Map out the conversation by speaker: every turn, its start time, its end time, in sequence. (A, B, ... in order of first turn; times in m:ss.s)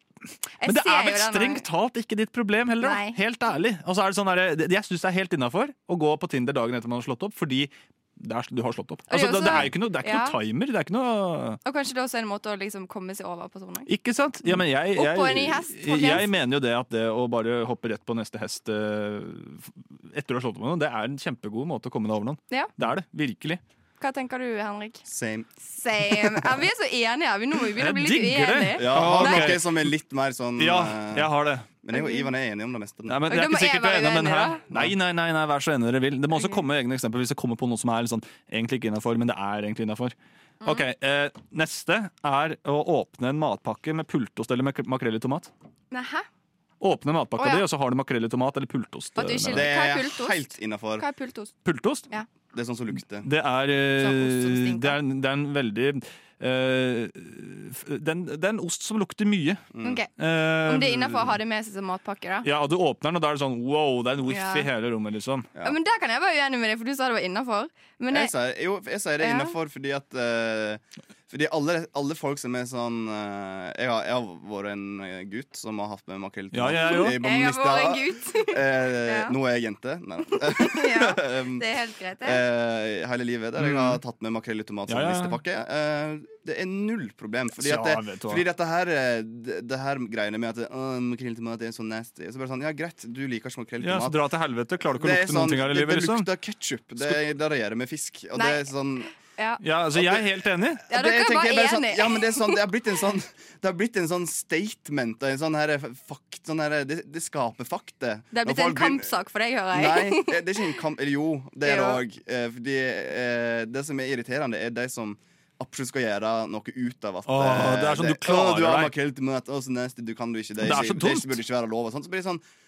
0:00.6-0:01.6 A
0:00.6-0:11.6 B
0:02.8-0:03.2 A
0:09.1-0:10.4 A
0:11.6-0:13.9 A
0:13.9-0:23.6 B
0:14.5-0:16.2 A
0:24.0-0:25.0 A
0:25.0-0:25.5 C
0:25.7-0:29.6 A
0:27.8-0:29.9 B
0:28.8-0:31.3 C
0:30.6-0:31.7 B
0:31.8-0:33.2 C
0:31.9-0:32.3 A
0:33.1-0:45.5 B
0:33.3-0:34.6 A
0:36.3-0:36.6 A
0:45.9-0:46.3 A
0:46.8-0:49.7 B
0:47.4-0:47.6 A
0:49.2-0:51.5 A
0:49.5-0:51.0 C
0:51.6-0:52.1 B
0:52.5-0:53.3 C
0:53.2-0:59.6 B
0:54.0-0:55.0 A
0:59.7-1:00.0 C
0:59.8-1:00.1 A
1:00.2-1:01.3 B
1:00.7-1:02.5 A
1:02.4-1:05.5 B
1:04.3-1:04.7 A
1:05.6-1:08.3 A
1:08.1-1:21.6 C
1:09.2-1:09.5 A
1:16.5-1:17.2 B
1:16.8-1:19.3 A
1:20.3-1:22.4 A
1:22.2-1:34.2 C
1:23.6-1:24.0 B
1:24.9-1:25.4 B
1:27.6-1:28.4 B
1:33.8-1:36.3 B
1:34.9-1:39.1 C
1:38.3-1:38.7 A
1:39.2-1:39.6 A
1:39.6-1:40.8 B
1:39.9-1:49.1 C
1:40.9-1:42.6 A
1:48.3-1:50.7 A
1:49.7-2:02.4 C
1:51.6-1:52.0 A
1:57.2-1:58.9 B
2:00.6-2:01.4 B